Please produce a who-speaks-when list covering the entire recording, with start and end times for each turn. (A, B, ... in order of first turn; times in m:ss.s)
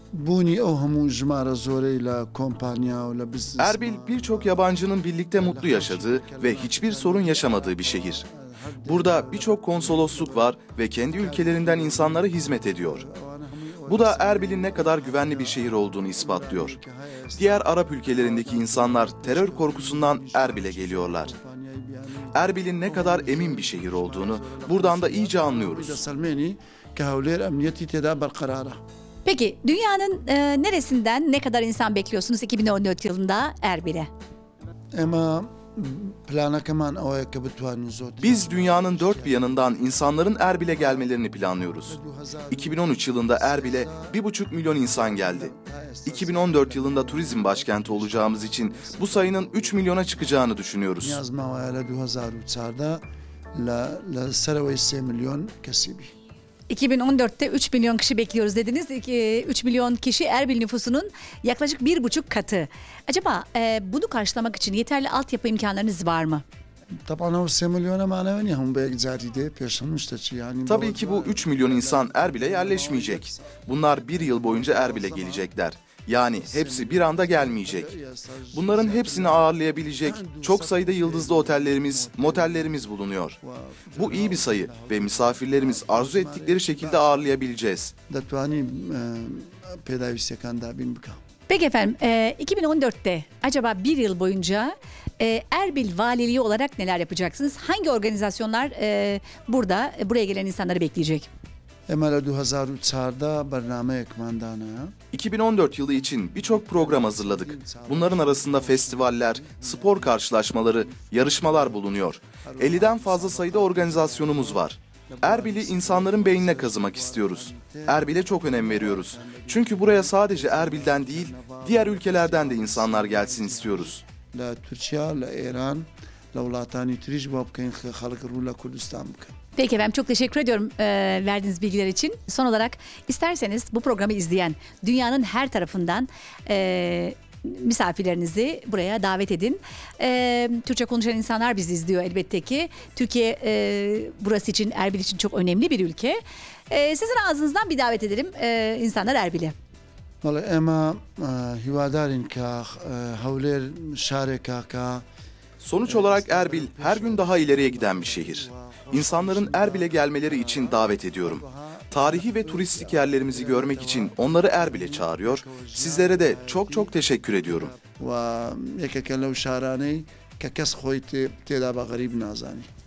0:00.1-0:04.6 A
0:03.6-0:08.2 B
0:05.3-0:10.6 A
0:08.8-0:13.0 B
0:11.1-0:28.8 A
0:13.8-0:16.8 B
0:17.3-0:21.3 B
0:22.3-0:26.0 B
0:29.2-0:34.1 C
0:34.9-0:41.1 A
0:38.2-0:42.0 B
0:41.8-0:44.2 A
0:42.5-0:45.5 B
0:44.8-0:50.4 A
0:46.0-0:51.2 B
0:51.0-0:53.0 A
0:53.6-0:56.1 A
0:56.7-1:06.4 C
1:07.1-1:15.5 A
1:10.7-1:17.9 B
1:16.4-1:22.8 A
1:18.5-1:23.4 B
1:23.4-1:27.3 A
1:23.9-1:27.9 B
1:28.1-1:31.2 A
1:31.5-1:41.3 C
1:41.9-1:44.9 A
1:45.1-2:04.0 B
1:46.4-1:51.9 A
1:52.4-2:09.3 A
2:09.6-2:29.5 C
2:30.2-2:35.0 A
2:35.6-2:47.7 B
2:35.8-2:52.7 A